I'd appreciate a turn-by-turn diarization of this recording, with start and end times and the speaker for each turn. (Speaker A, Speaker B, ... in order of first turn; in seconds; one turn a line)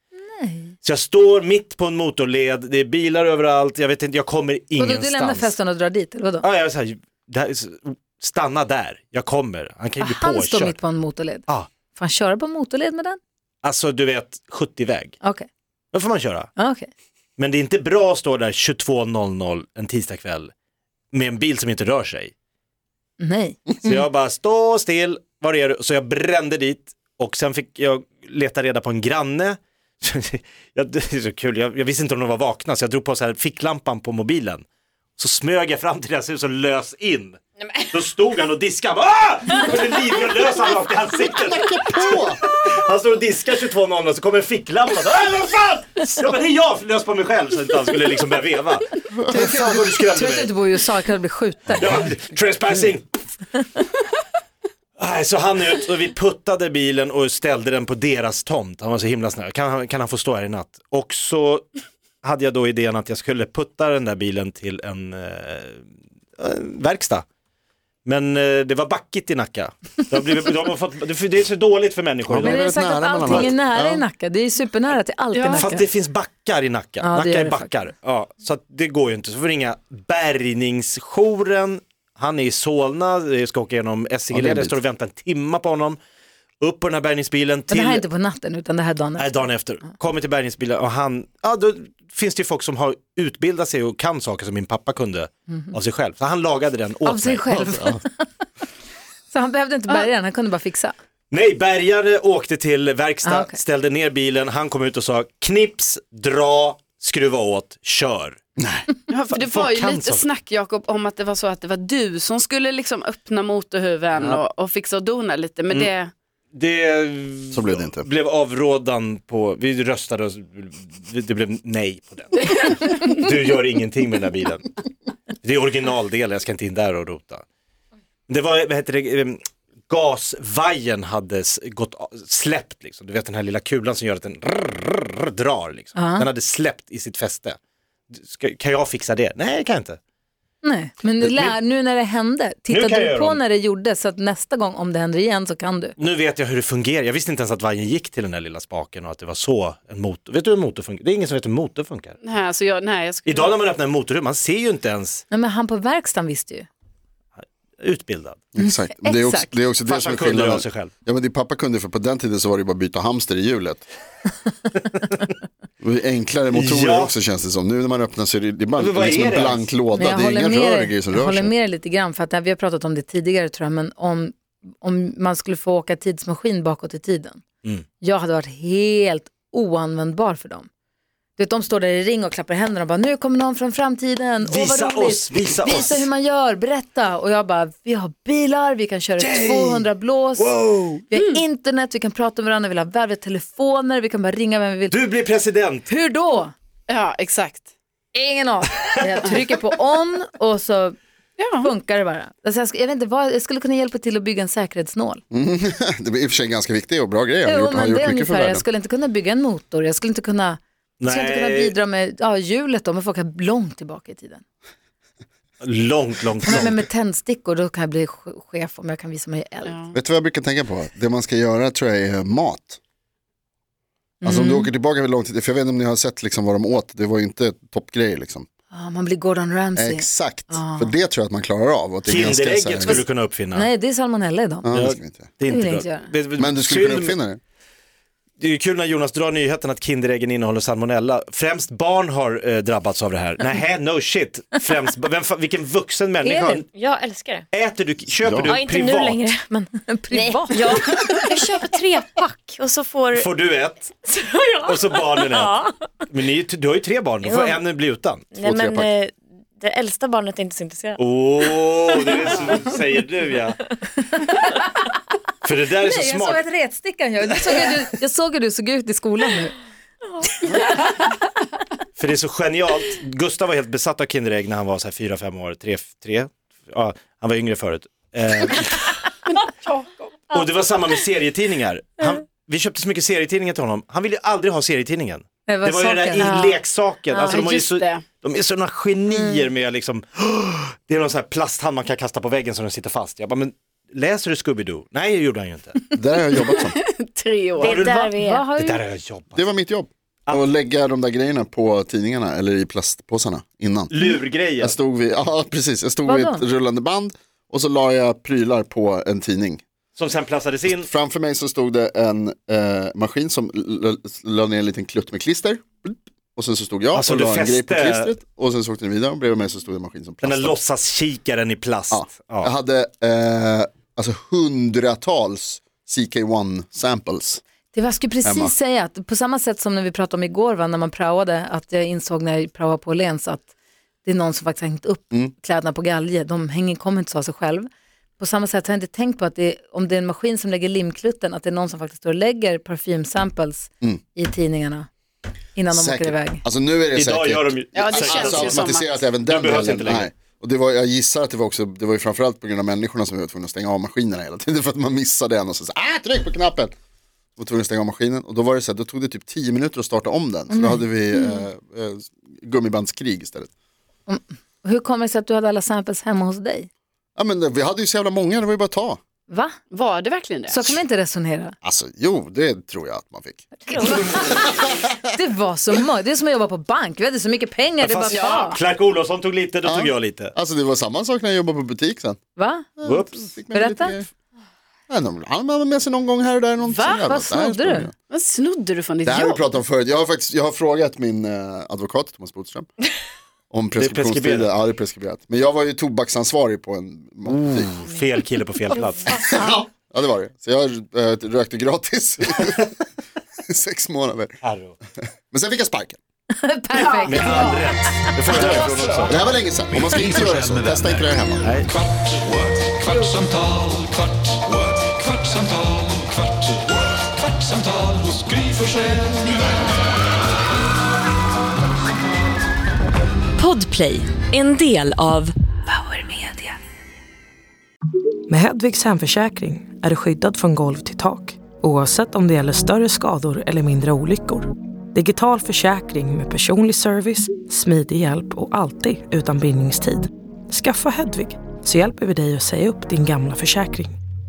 Speaker A: 0.1-0.8
Speaker B: 0.8-5.5
Speaker A: 4.8-6.5
Speaker B: 6.4-10.8
Speaker A: 10.0-13.2
Speaker B: 13.6-15.2
Speaker A: 15.2-15.5
Speaker B: 15.9-16.5
Speaker A: 16.6-16.9
Speaker B: 17.4-20.5
Speaker B: 21.1-22.3
Speaker A: 23.2-23.6
Speaker B: 23.8-34.6
Speaker B: 35.2-50.5
Speaker C: 41.4-42.4
Speaker C: 49.3-49.6
Speaker A: 49.3-52.0
Speaker B: 51.7-53.0
Speaker B: 55.0-61.7
Speaker B: 62.2-65.8
Speaker B: 66.4-67.2
Speaker B: 68.0-73.5
Speaker C: 72.2-74.0
Speaker A: 72.4-75.8
Speaker D: 75.3-75.8
Speaker B: 75.6-86.0
Speaker A: 77.0-77.7
Speaker C: 84.3-84.8
Speaker B: 86.6-88.0
Speaker A: 87.7-89.4
Speaker B: 89.2-97.8
Speaker A: 97.0-98.2
Speaker C: 97.6-98.0
Speaker A: 99.3-100.9
Speaker B: 101.3-108.4
Speaker A: 103.2-103.6
Speaker C: 108.6-108.9
Speaker D: 109.1-116.1
Speaker B: 109.3-110.2
Speaker B: 114.2-114.4
Speaker B: 116.5-124.7
Speaker C: 117.5-118.0
Speaker D: 122.5-123.1
Speaker B: 125.4-127.4
Speaker B: 128.3-137.6
Speaker A: 135.9-136.3
Speaker B: 138.1-140.0
Speaker A: 140.6-145.9
Speaker B: 141.2-141.5
Speaker B: 142.7-143.4
Speaker B: 146.0-152.2
Speaker D: 152.2-153.6
Speaker B: 153.2-155.2
Speaker A: 155.3-156.7
Speaker B: 157.8-158.4
Speaker C: 158.5-163.8
Speaker A: 158.6-159.6
Speaker B: 159.8-160.9
Speaker C: 165.8-171.5
Speaker B: 166.5-167.1
Speaker B: 168.8-169.7
Speaker A: 169.9-177.4
Speaker A: 178.0-180.7
Speaker A: 181.4-190.6
Speaker B: 184.4-186.1
Speaker B: 189.2-191.0
Speaker A: 191.1-194.9
Speaker D: 191.1-191.4
Speaker B: 194.9-195.9
Speaker A: 195.9-196.5
Speaker D: 196.9-197.7
Speaker A: 198.1-201.0
Speaker D: 201.4-201.7
Speaker A: 201.6-205.2
Speaker C: 205.3-208.6
Speaker A: 207.4-214.4
Speaker B: 211.0-211.7
Speaker B: 215.6-216.8
Speaker A: 216.4-219.8
Speaker D: 219.6-219.9
Speaker C: 219.9-222.8
Speaker A: 224.2-224.7
Speaker C: 224.2-228.4
Speaker A: 228.7-230.9
Speaker C: 229.8-233.0
Speaker B: 232.0-233.7
Speaker A: 233.5-234.7
Speaker C: 234.6-235.3
Speaker B: 234.7-237.2
Speaker A: 235.4-236.1
Speaker C: 236.4-237.4
Speaker B: 238.4-246.7
Speaker A: 246.2-246.6
Speaker E: 246.7-247.4
Speaker B: 247.5-249.3
Speaker C: 248.2-248.6
Speaker E: 248.4-253.3
Speaker A: 249.6-250.8
Speaker B: 253.1-253.9
Speaker E: 254.0-255.8
Speaker B: 254.7-255.5
Speaker B: 256.1-258.3
Speaker E: 257.2-257.6
Speaker E: 258.3-261.0
Speaker C: 258.4-258.9
Speaker B: 261.0-263.7
Speaker B: 265.4-266.4
Speaker A: 265.8-269.6
Speaker B: 272.0-278.9
Speaker D: 279.3-280.2
Speaker B: 280.3-295.8
Speaker A: 285.5-286.4
Speaker D: 286.2-286.6
Speaker D: 287.2-288.0
Speaker C: 295.9-296.8
Speaker D: 296.4-297.8
Speaker E: 297.6-298.4
Speaker A: 297.6-298.8
Speaker B: 297.6-297.9
Speaker B: 298.6-299.5
Speaker C: 299.3-309.6
Speaker B: 303.9-304.8
Speaker A: 306.0-306.4
Speaker B: 309.9-310.9
Speaker C: 310.7-320.6
Speaker B: 316.9-318.1
Speaker B: 320.2-322.5
Speaker C: 321.9-327.4
Speaker A: 327.7-333.5
Speaker C: 328.2-328.5
Speaker A: 334.0-344.9
Speaker A: 345.5-346.4
Speaker C: 345.7-356.7
Speaker B: 346.9-350.1
Speaker D: 347.7-349.0
Speaker C: 357.4-363.5
Speaker A: 360.5-361.4
Speaker A: 364.1-366.7
Speaker C: 367.1-369.0
Speaker A: 369.3-369.5
Speaker D: 369.7-370.7
Speaker A: 370.5-371.5
Speaker C: 371.6-374.7
Speaker E: 373.7-374.1
Speaker A: 373.7-378.6
Speaker B: 377.8-380.3
Speaker C: 378.1-378.4
Speaker C: 379.6-382.2
Speaker A: 382.4-382.7
Speaker C: 382.8-384.1
Speaker B: 382.8-383.2
Speaker A: 383.5-384.0
Speaker C: 384.9-387.9
Speaker D: 386.6-387.1
Speaker A: 387.0-387.9
Speaker D: 388.1-389.4
Speaker C: 389.0-392.7
Speaker C: 393.5-397.8
Speaker B: 393.8-394.5
Speaker B: 397.2-399.2
Speaker C: 399.1-402.8
Speaker C: 403.5-404.4
Speaker B: 404.4-404.8
Speaker C: 405.1-406.0
Speaker A: 406.3-408.6
Speaker D: 406.8-407.6
Speaker B: 407.1-409.3
Speaker C: 409.0-411.5
Speaker F: 409.6-411.2
Speaker B: 411.4-411.7
Speaker F: 412.3-416.0
Speaker G: 428.3-444.0